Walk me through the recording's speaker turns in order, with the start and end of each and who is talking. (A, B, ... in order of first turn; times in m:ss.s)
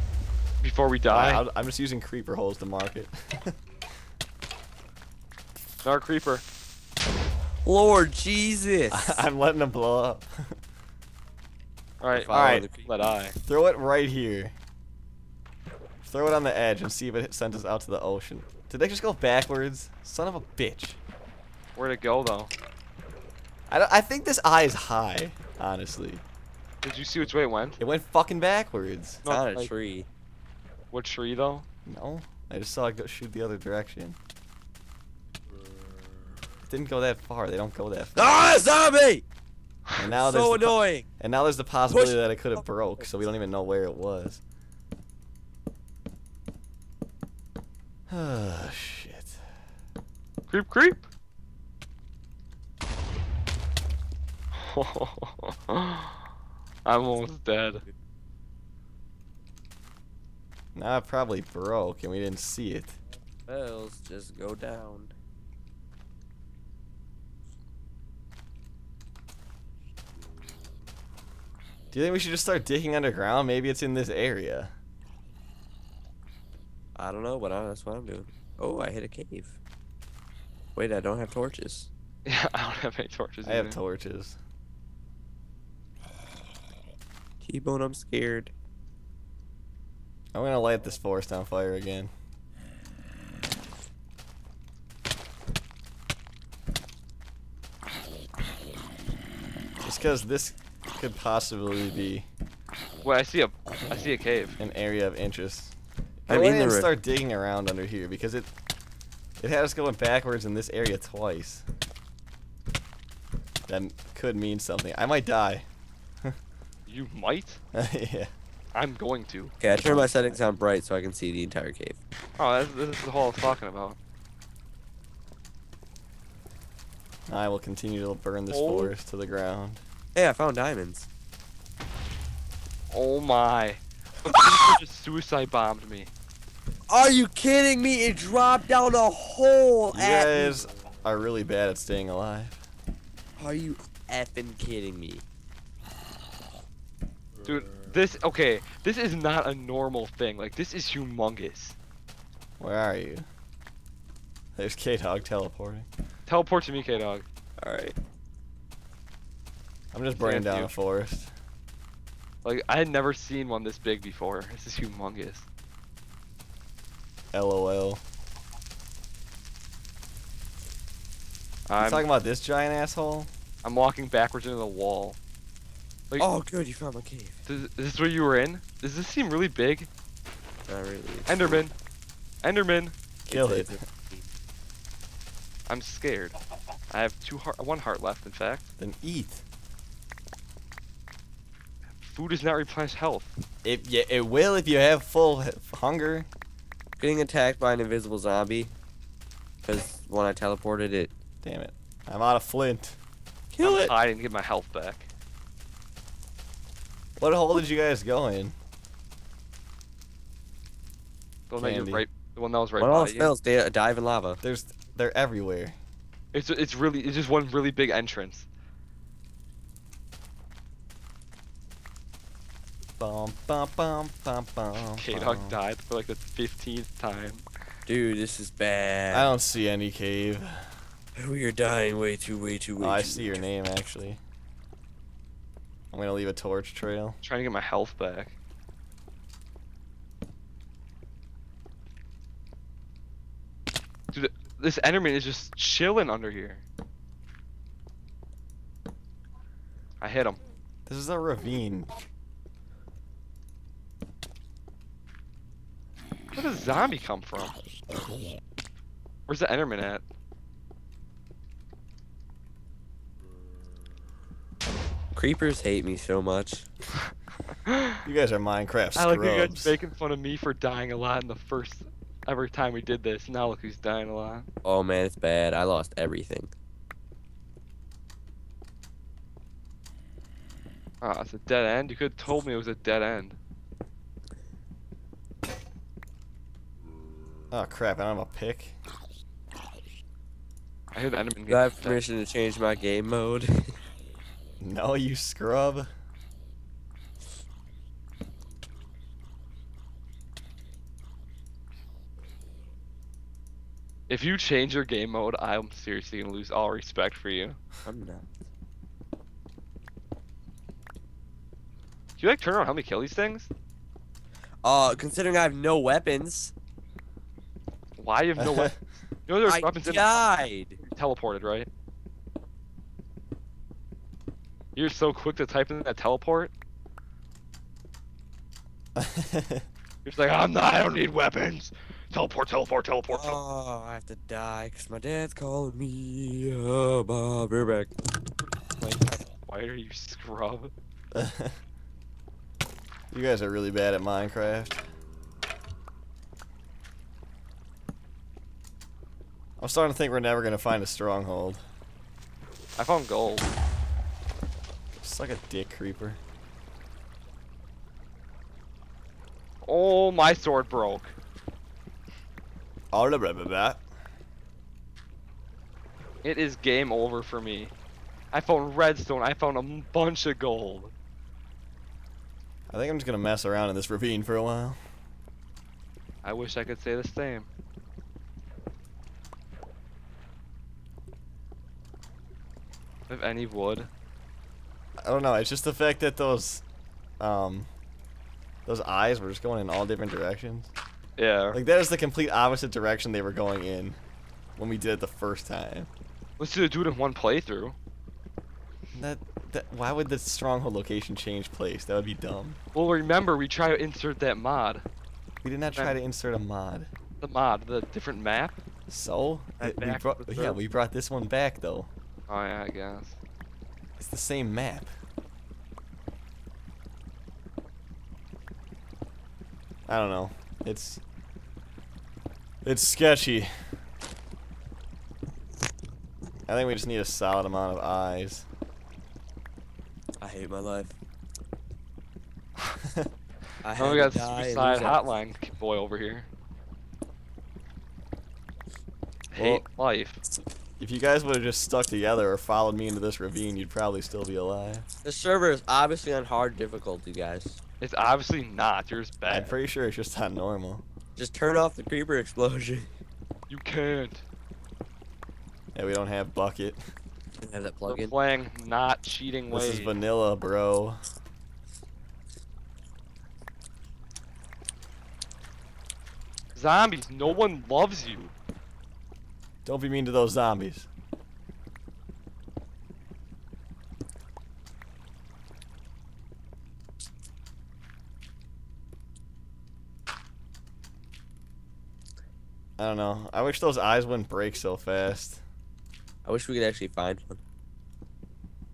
0:00.6-0:01.4 A
0:01.1-0:03.5 B
0:05.8-0:06.4 A
0:07.6-0:09.2 C
0:08.9-0:10.3 B
0:12.0-0:13.4 A
0:12.1-0:12.9 C
0:12.3-0:12.6 B
0:13.4-0:14.5 B
0:16.0-0:21.0 B
0:21.8-0:22.5 A
0:23.7-0:26.2 B
0:26.8-0:27.8 A
0:27.8-0:29.2 B
0:29.2-0:29.7 A
0:29.2-0:30.1 C
0:30.9-0:31.6 A
0:31.8-0:34.2 B
0:36.7-0:38.3 B
0:38.2-0:39.2 C
0:40.0-0:44.4 B
0:40.1-0:41.1 C
0:41.9-0:42.2 C
0:48.1-0:49.4 B
0:50.5-0:51.0 A
0:54.5-0:56.2 A
0:56.8-0:57.8 A
1:00.7-1:03.0 B
1:03.5-1:05.1 C
1:11.9-1:14.7 B
1:17.0-1:19.6 C
1:20.7-1:21.9 C
1:22.2-1:23.8 A
1:23.4-1:24.4 B
1:27.4-1:28.5 C
1:30.3-1:32.1 B
1:39.8-1:42.3 B
1:43.0-1:44.6 A
1:44.6-1:48.5 B
1:46.3-1:46.9 C
1:49.4-1:51.6 B
1:53.7-1:55.7 B
1:56.9-1:57.6 A
1:57.7-1:58.3 B
1:58.7-1:59.5 A
1:59.6-2:02.0 C
1:59.6-2:00.4 B
2:02.4-2:04.0 A
2:07.3-2:09.8 B
2:08.5-2:09.0 A
2:10.1-2:11.1 C
2:12.9-2:16.1 A
2:14.4-2:14.7 C
2:16.9-2:20.6 C
2:19.9-2:22.6 B
2:23.4-2:25.2 C
2:27.4-2:31.8 A
2:32.6-2:33.2 B
2:34.5-2:35.9 B
2:36.3-2:37.2 A
2:37.6-2:38.0 C
2:39.9-2:41.3 B
2:40.1-2:40.7 A
2:42.4-2:45.5 A
2:47.3-2:48.0 B
2:51.7-2:52.1 A
2:51.8-2:53.3 B
2:53.6-2:55.2 A
2:56.2-2:57.4 C
2:57.4-2:59.9 A
3:00.7-3:01.4 C
3:01.2-3:01.7 A
3:02.4-3:02.9 A
3:03.2-3:04.3 C
3:03.3-3:03.8 B
3:05.7-3:06.4 A
3:06.9-3:08.7 A
3:08.8-3:09.4 B
3:12.0-3:13.4 A
3:13.6-3:16.3 B
3:17.0-3:18.7 C
3:19.6-3:21.1 C
3:21.4-3:23.0 B
3:23.5-3:23.8 C
3:23.6-3:25.1 A
3:27.2-3:28.5 B
3:31.5-3:33.3 A
3:31.6-3:32.0 B
3:32.8-3:34.4 C
3:34.4-3:35.8 B
3:36.3-3:38.5 A
3:43.0-3:45.6 B
3:44.9-3:47.4 A
3:47.8-3:49.3 C
3:49.1-3:50.6 B
3:51.2-3:53.4 C
3:52.8-3:54.2 B
3:55.9-3:57.2 B
3:57.2-3:58.3 A
4:04.1-4:06.6 A
4:10.0-4:10.4 A
4:10.9-4:11.9 B
4:16.4-4:17.6 A
4:19.3-4:20.0 A
4:25.1-4:26.6 C
4:27.7-4:27.9 A
4:28.0-4:29.8 B
4:28.9-4:34.5 A
4:34.6-4:36.5 C
4:41.0-4:43.4 A
4:47.5-4:48.8 B
4:50.9-4:52.0 A
4:51.5-4:53.6 C
4:54.6-4:55.9 B
5:04.1-5:07.6 A
5:07.8-5:08.3 C
5:12.2-5:13.5 A
5:14.6-5:16.5 C
5:18.0-5:20.3 A
5:18.4-5:18.7 B
5:19.4-5:20.8 C
5:20.8-5:21.7 A
5:24.8-5:26.5 A
5:29.0-5:29.6 B
5:30.0-5:33.4 A
5:33.1-5:37.9 C
5:38.6-5:40.7 A
5:41.1-5:41.6 B
5:43.1-5:44.8 B
5:49.6-5:51.6 B
5:52.8-5:53.5 A
5:55.0-5:56.2 B
5:59.6-6:01.1 A
6:02.9-6:03.8 B
6:06.2-6:07.7 A
6:08.3-6:10.9 A
6:12.7-6:14.8 B
6:16.2-6:17.5 A
6:23.1-6:23.9 A
6:25.0-6:26.6 B
6:27.2-6:27.7 B
6:28.6-6:30.7 B
6:31.2-6:31.6 A
6:31.5-6:34.0 B
6:34.6-6:35.9 B
6:36.4-6:37.8 A
6:38.9-6:42.6 B
6:42.7-6:44.8 A
6:45.4-6:46.9 B
6:45.7-6:46.0 A
6:47.2-6:48.6 A
6:48.9-6:51.9 B
6:49.6-6:50.6 A
6:52.3-6:53.2 A
6:54.0-6:54.9 B
6:59.9-7:01.0 B
7:02.6-7:03.5 B
7:06.5-7:08.5 B
7:10.2-7:10.9 C
7:12.6-7:13.1 B
7:13.6-7:15.0 C
7:13.8-7:16.3 A
7:19.3-7:20.2 A
7:19.3-7:19.6 B
7:20.8-7:24.8 B
7:25.0-7:27.6 C
7:27.8-7:29.5 A
7:29.3-7:30.8 B
7:31.2-7:32.9 C
7:33.5-7:34.2 A
7:35.7-7:36.8 B
7:37.4-7:38.1 C
7:37.8-7:39.9 A
7:39.5-7:41.0 B
7:46.5-7:48.3 A
7:49.6-7:50.9 B
8:02.8-8:05.4 B
8:06.2-8:07.4 C